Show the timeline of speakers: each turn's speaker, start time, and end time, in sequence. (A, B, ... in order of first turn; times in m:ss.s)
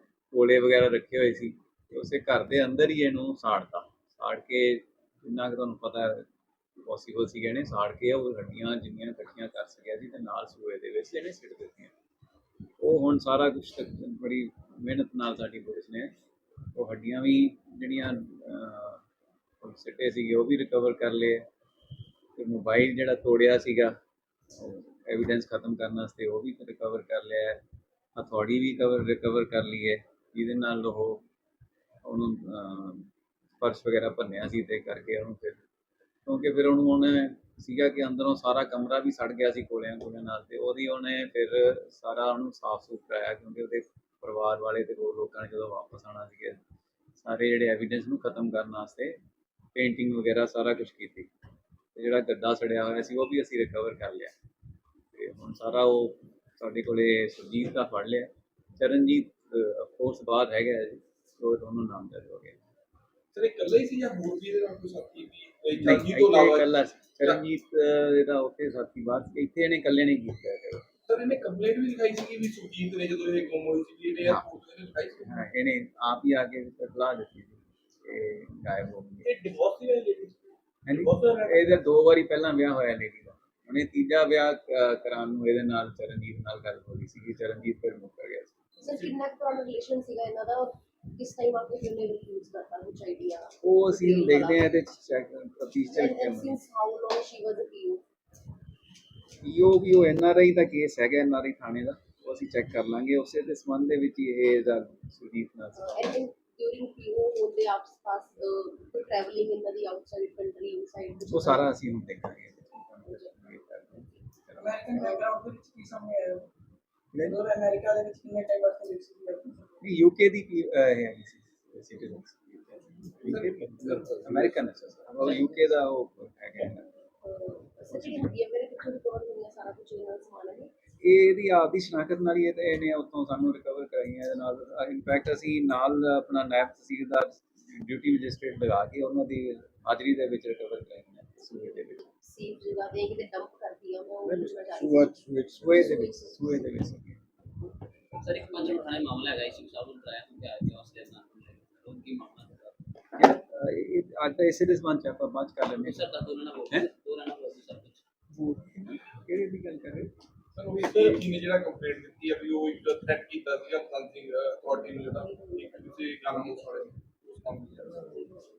0:00.3-0:06.2 A
0:06.8-0:11.9 A
0:12.8-0:16.1 A
0:16.8-0:19.0 A
0:19.6-0:21.4 A
0:22.4-0:23.9 A
0:24.5-0:27.6 A
0:28.2-0:31.2 A
0:32.0-0:35.6 A
0:36.2-0:46.6 A
0:47.2-0:49.2 A
0:49.8-0:51.3 A
0:51.9-0:54.3 A
0:55.1-1:02.6 A
1:03.3-1:07.4 B
1:05.8-1:10.8 A
1:11.1-1:15.4 B
1:15.2-1:19.3 A
1:19.2-1:21.8 B
1:20.9-1:28.6 A
1:28.8-1:34.6 C
1:33.6-1:36.6 A
1:35.9-1:38.0 C
1:39.4-1:46.2 A
1:45.8-1:51.7 C
1:51.3-1:54.6 A
1:54.6-1:56.5 D
1:57.1-1:59.6 D
1:59.8-2:06.9 A
2:03.2-2:04.6 B
2:07.2-2:10.7 C
2:07.9-2:08.3 A
2:11.0-2:22.1 A
2:22.2-2:26.6 C
2:24.8-2:25.7 D
2:25.5-2:27.2 A
2:28.1-2:32.8 E
2:33.1-2:36.1 A
2:35.8-2:38.0 E
2:38.4-2:40.1 A
2:40.6-2:48.3 B
2:40.9-2:41.2 A
2:44.7-2:46.6 C